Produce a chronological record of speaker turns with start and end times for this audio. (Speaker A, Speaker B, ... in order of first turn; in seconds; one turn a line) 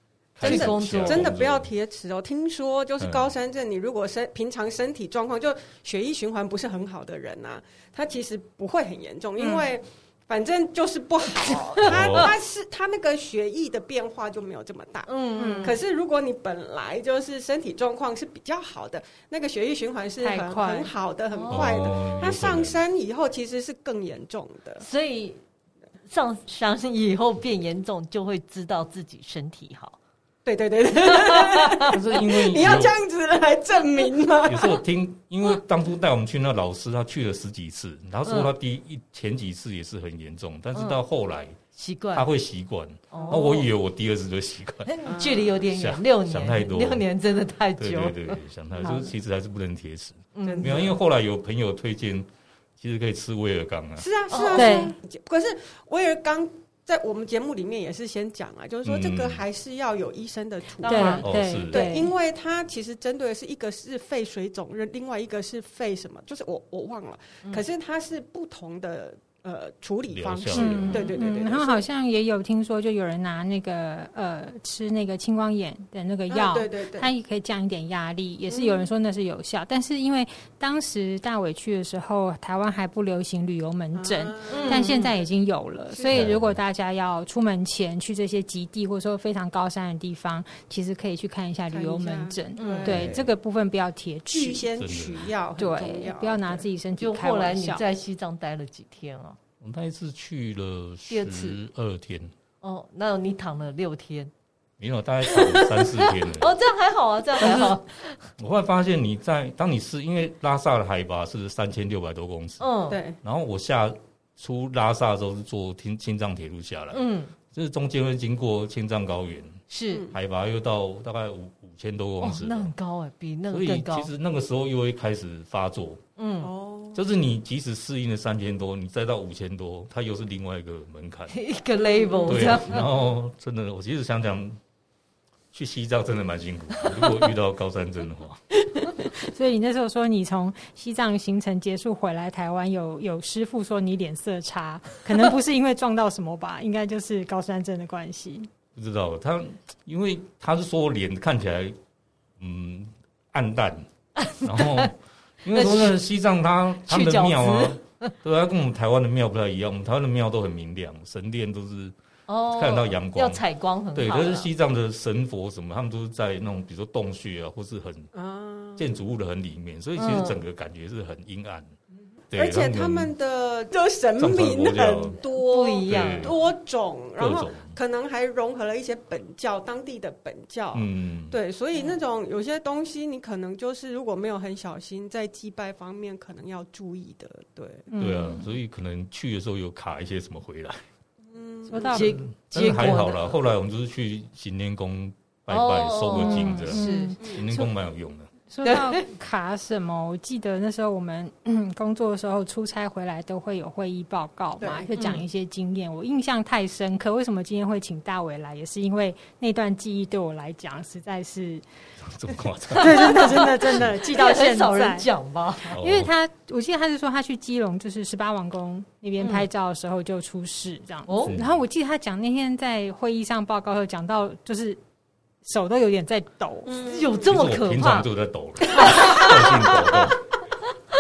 Speaker A: 0.3-1.7
Speaker B: 0.4-15.1
Speaker C: 0.4-1.3
Speaker A: 3.0-3.3
Speaker A: 11.8-12.3
Speaker C: 11.9-12.2
Speaker C: 15.1-15.8
Speaker D: 15.4-15.8
Speaker B: 15.6-24.9
Speaker D: 20.2-20.9
Speaker C: 21.3-22.3
Speaker A: 21.5-22.8
Speaker C: 24.8-25.4
Speaker C: 26.1-30.0
Speaker B: 30.4-34.8
Speaker C: 31.1-31.9
Speaker A: 31.9-33.0
Speaker A: 34.5-41.6
Speaker C: 38.3-38.5
Speaker C: 41.8-42.3
Speaker A: 42.1-44.9
Speaker C: 43.1-43.7
Speaker B: 43.2-43.6
Speaker C: 44.9-48.4
Speaker B: 45.1-45.6
Speaker A: 45.6-47.0
Speaker A: 47.8-54.1
Speaker D: 48.8-49.1
Speaker C: 50.4-50.8
Speaker B: 50.5-50.9
Speaker B: 54.0-71.8
Speaker C: 54.3-54.9
Speaker D: 54.5-54.9
Speaker A: 58.9-59.4
Speaker C: 60.8-61.3
Speaker D: 60.9-62.1
Speaker A: 61.2-61.9
Speaker A: 70.1-71.1
Speaker D: 70.5-94.7
Speaker C: 70.9-71.3
Speaker B: 76.3-77.1
Speaker B: 78.5-78.9
Speaker B: 84.0-85.2
Speaker C: 84.5-85.1
Speaker B: 85.9-86.3
Speaker A: 86.1-86.6
Speaker B: 91.7-93.3
Speaker C: 92.6-93.2
Speaker B: 94.3-96.7
Speaker A: 94.8-95.3
Speaker D: 95.6-97.8
Speaker C: 97.0-99.4
Speaker A: 99.6-102.3
Speaker C: 101.1-101.6
Speaker C: 102.6-104.3
Speaker A: 104.8-106.5
Speaker C: 105.3-108.2
Speaker A: 107.4-107.8
Speaker A: 108.4-112.7
Speaker C: 112.6-113.0
Speaker B: 112.9-113.2
Speaker A: 113.2-122.7
Speaker C: 116.9-117.3
Speaker C: 119.7-120.1
Speaker B: 119.9-120.2
Speaker C: 122.2-124.1
Speaker A: 123.5-126.0
Speaker C: 126.2-126.5
Speaker B: 126.4-127.0
Speaker A: 126.9-131.4
Speaker C: 131.3-132.9
Speaker B: 131.8-132.8
Speaker A: 132.3-134.6
Speaker A: 135.5-138.4
Speaker D: 138.9-148.5
Speaker A: 148.8-151.8
Speaker A: 152.4-153.9
Speaker C: 154.2-154.9
Speaker A: 154.4-161.9
Speaker C: 155.5-156.0
Speaker C: 156.9-158.1
Speaker C: 162.3-164.5
Speaker A: 162.5-163.4
Speaker A: 163.9-168.1
Speaker B: 168.1-168.9
Speaker A: 168.8-171.7
Speaker C: 170.0-170.4
Speaker A: 172.3-173.1
Speaker B: 172.3-187.9
Speaker A: 174.2-175.2
Speaker C: 175.3-176.3
Speaker A: 175.9-176.3
Speaker A: 177.2-177.8
Speaker A: 180.7-181.4
Speaker D: 187.9-188.5
Speaker A: 188.0-190.8
Speaker B: 191.3-192.1
Speaker D: 191.7-192.2
Speaker C: 191.8-193.3
Speaker A: 191.9-198.3
Speaker C: 195.5-197.2
Speaker D: 196.1-197.7
Speaker B: 197.2-197.5
Speaker D: 198.5-211.6
Speaker C: 198.6-199.1
Speaker B: 204.6-204.9
Speaker C: 205.0-205.2
Speaker A: 212.0-213.9
Speaker D: 212.8-215.1
Speaker C: 213.0-215.8
Speaker A: 215.7-216.1
Speaker D: 215.7-224.8
Speaker C: 219.2-219.5
Speaker C: 221.1-221.4
Speaker A: 221.2-221.6
Speaker D: 225.4-226.8
Speaker B: 226.7-227.3
Speaker C: 226.8-228.1
Speaker A: 227.2-230.3
Speaker C: 228.6-230.1